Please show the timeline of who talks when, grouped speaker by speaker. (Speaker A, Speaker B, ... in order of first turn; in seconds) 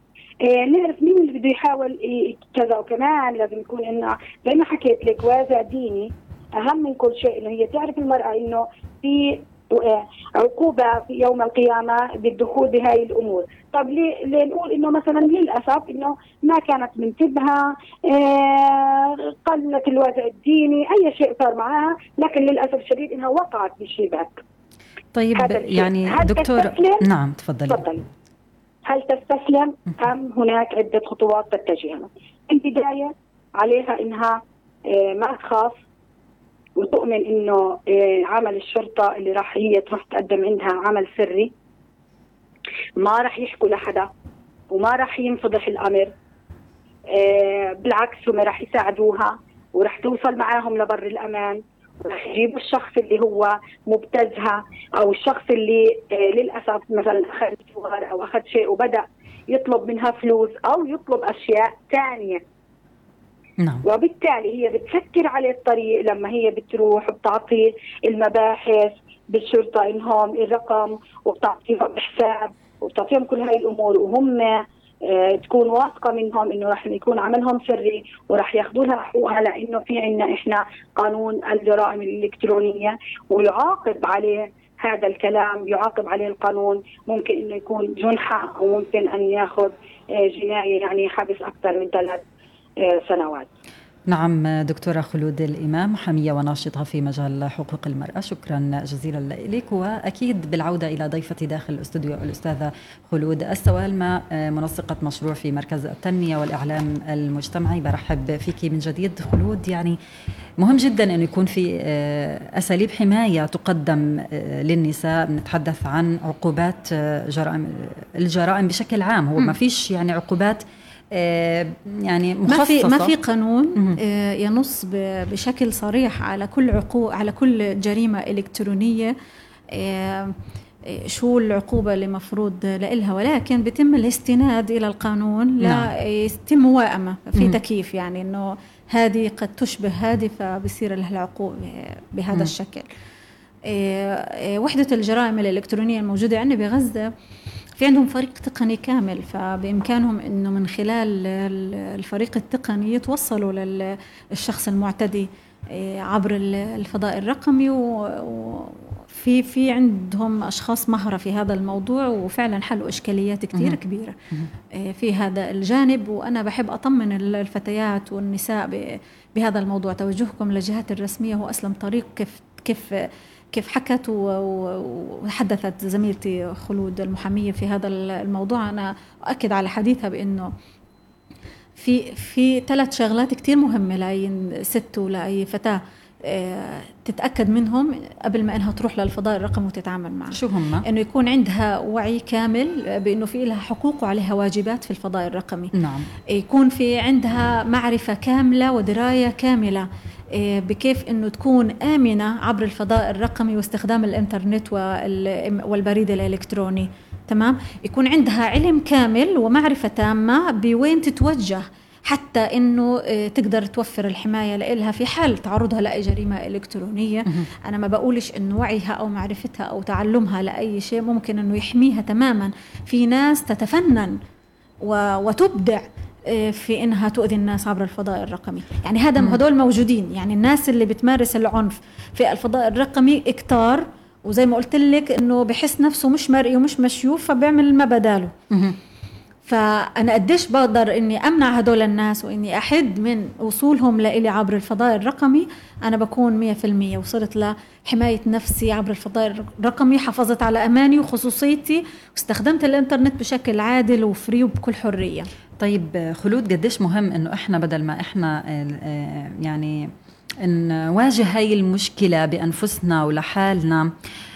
Speaker A: 0.4-24.4, 25.3-27.0, 27.7-28.0, 28.9-35.8, 36.8-41.5, 43.0-44.1, 44.7-46.1, 47.1-62.4, 63.8-92.2, 92.8-93.5
Speaker B: 25.1-27.8, 63.6-63.8, 94.1-110.0, 110.6-123.1, 135.6-135.9, 190.3-190.8, 195.7-196.1, 238.5-238.8, 255.6-259.9, 260.4-263.9
Speaker C: 122.5-129.1, 129.7-142.9, 143.7-147.1, 147.8-164.2, 164.7-180.5, 181.8-195.7, 196.3-224.2, 224.8-238.3, 239.4-255.3